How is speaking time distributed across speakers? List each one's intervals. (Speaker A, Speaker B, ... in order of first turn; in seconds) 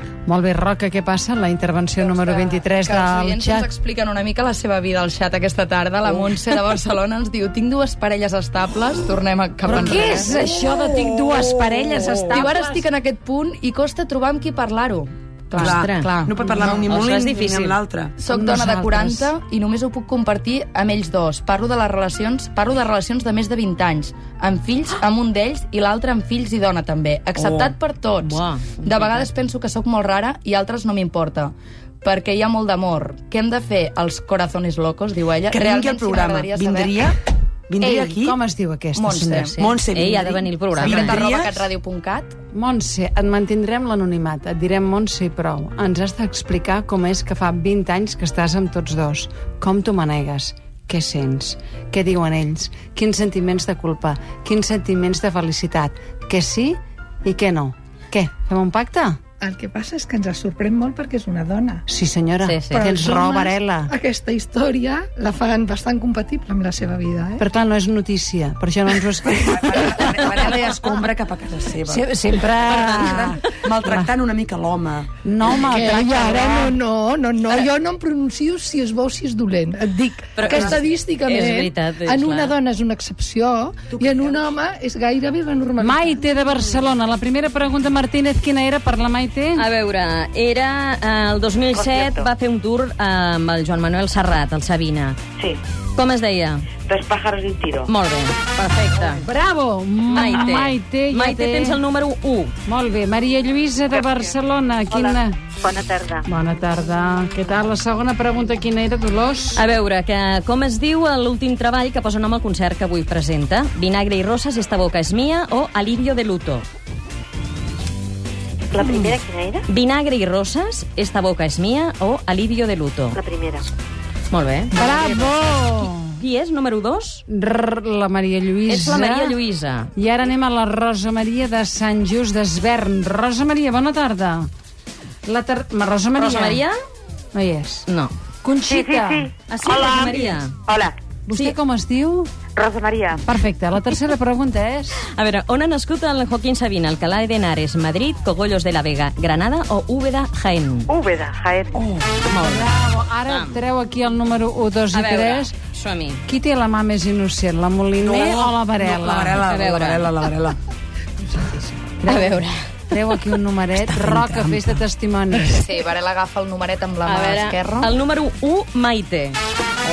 Speaker A: 0.3-3.7, 9.7-12.9, 18.3-19.3, 38.1-39.5, 42.5-59.2, 61.9-63.9, 67.4-70.4, 71.8-73.7, 75.2-76.8, 85.8-89.6, 99.2-101.8, 102.7-105.4, 106.2-109.6, 124.7-126.2, 127.3-129.4, 129.9-134.5, 135.2-136.6, 137.3-137.8, 138.4-139.3, 141.3-142.3, 143.2-145.0, 152.4-155.5, 156.3-159.5, 162.0-162.4, 162.9-165.7
Speaker B: 2.0-10.3, 12.3-16.8, 18.2-37.1, 39.0-39.5, 40.8-42.3, 165.6-167.9
Speaker C: 9.9-12.4, 15.5-18.1, 27.4-27.8, 35.5-37.1, 37.7-38.4, 39.6-41.7, 69.4-75.1, 83.9-84.5, 151.7-152.1, 158.0-160.6, 163.9-164.7
Speaker D: 15.5-17.8, 28.2-29.2, 39.5-41.2, 62.4-62.8, 80.3-82.5, 89.5-95.2, 96.0-96.7, 97.9-99.2, 100.1-102.5, 109.5-116.6, 119.7-123.2, 124.3-127.2, 128.7-129.9, 136.2-136.8, 137.9-138.1, 139.5-140.6, 141.3-141.6, 145.0-150.9, 152.2-152.7, 153.3-153.6, 154.9-156.2, 159.4-160.1, 162.0-162.6, 167.0-169.4
Speaker E: 59.4-61.8, 62.7-67.4, 75.4-86.2, 161.3-161.7
Speaker F: 91.8-92.2, 96.9-97.8, 105.6-106.2, 118.7-119.6, 123.2-123.7, 138.7-139.1, 139.7-140.9, 142.6-143.2, 150.9-151.7